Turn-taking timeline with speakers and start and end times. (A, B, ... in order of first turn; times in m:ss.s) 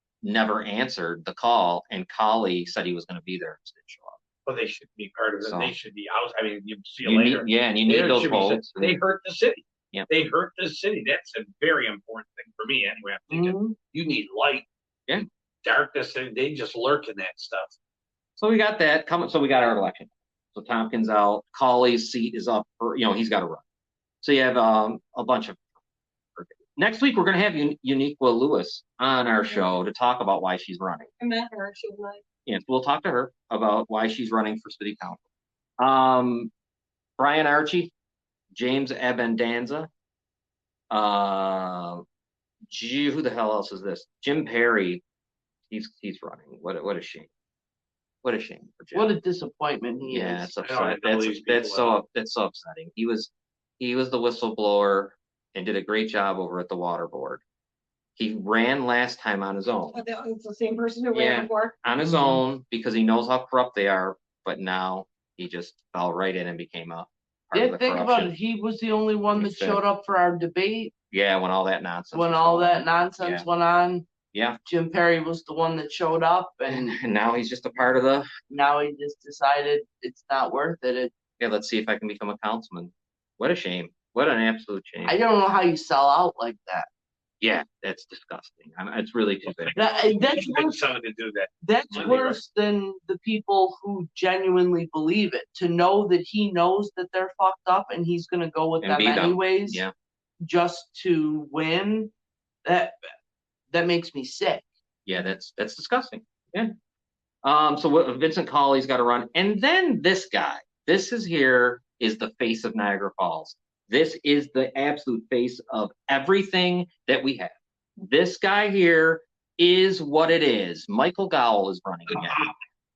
0:00.2-0:04.2 A
0:04.5-0:14.7 B
0:05.4-0:05.8 A
0:07.0-0:09.0 A
0:13.3-0:13.8 C
0:15.6-0:17.8 B
0:18.4-0:23.6 A
0:24.2-0:25.6 A
0:26.4-0:31.1 A
0:29.4-0:29.7 D
0:31.2-0:32.2 D
0:32.5-0:35.2 A
0:35.8-0:36.5 A
0:37.2-0:37.9 A
0:38.5-0:39.9 A
0:40.9-0:42.0 A
0:42.7-0:45.0 A
0:45.7-0:47.3 A
0:48.2-0:49.1 A
0:48.9-0:50.5 C
0:50.0-0:57.4 A
0:50.6-0:51.9 B
0:58.2-1:00.0 A
0:59.9-1:01.8 D
1:01.1-1:08.3 A
1:02.0-1:02.4 C
1:07.5-1:10.9 C
1:09.4-1:09.8 A
1:11.1-1:13.5 A
1:12.1-1:14.1 C
1:14.3-1:14.6 A
1:14.7-1:17.0 C
1:16.7-1:18.3 A
1:18.5-1:21.1 C
1:21.4-1:25.2 A
1:25.0-1:26.9 C
1:27.4-1:29.7 A
1:29.4-1:32.4 B
1:29.7-1:30.8 C
1:31.6-1:39.8 C
1:38.8-1:39.9 A
1:40.4-1:42.1 C
1:42.6-1:43.0 C
1:43.7-1:44.6 C
1:45.1-1:46.7 A
1:47.4-2:02.5 A
2:02.1-2:02.5 B